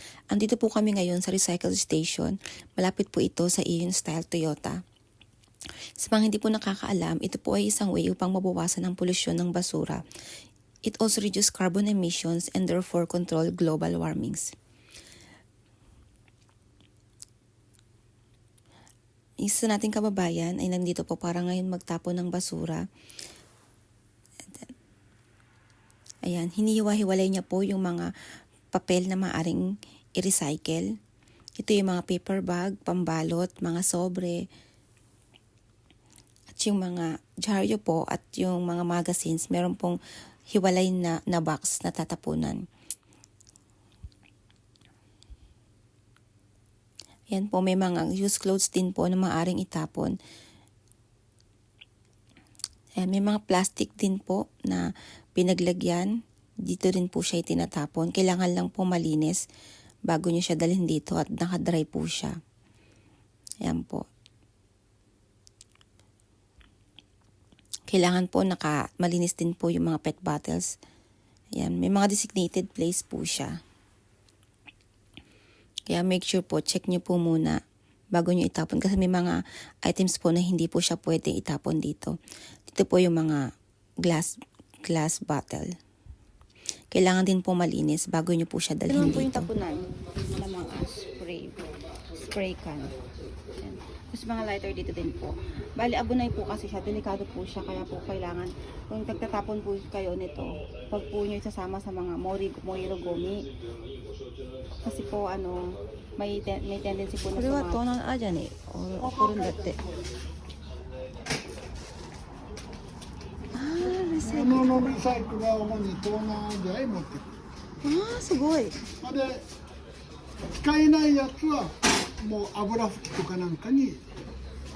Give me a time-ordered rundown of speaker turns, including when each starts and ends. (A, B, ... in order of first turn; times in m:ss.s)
0:00.3-0:04.8 A
0:06.0-0:10.0 A
0:10.9-0:14.5 A
0:19.4-0:22.8 A
0:26.2-0:28.1 A
0:28.7-0:29.6 A
0:30.2-0:30.9 A
0:31.6-0:34.4 A
0:36.5-0:40.0 A
0:40.5-0:42.6 A
0:47.3-0:50.2 A
0:53.0-0:54.8 A
0:55.4-0:56.1 A
0:56.7-0:59.4 A
1:00.1-1:02.3 A
1:03.6-1:04.0 A
1:07.9-1:10.7 A
1:11.6-1:13.5 A
1:15.9-1:17.6 A
1:18.1-1:22.2 A
1:22.7-1:23.4 A
1:24.0-1:24.3 A
1:24.8-1:25.7 A
1:26.9-1:29.5 A
1:28.9-1:31.6 B
1:32.2-1:33.0 B
1:33.6-1:43.5 B
1:44.8-1:47.8 B
1:47.2-1:49.8 A
1:49.0-1:49.8 C
1:53.6-1:54.6 A
1:54.2-1:57.2 C
1:57.8-1:58.8 B
1:59.0-1:59.4 C
2:00.6-2:04.0 C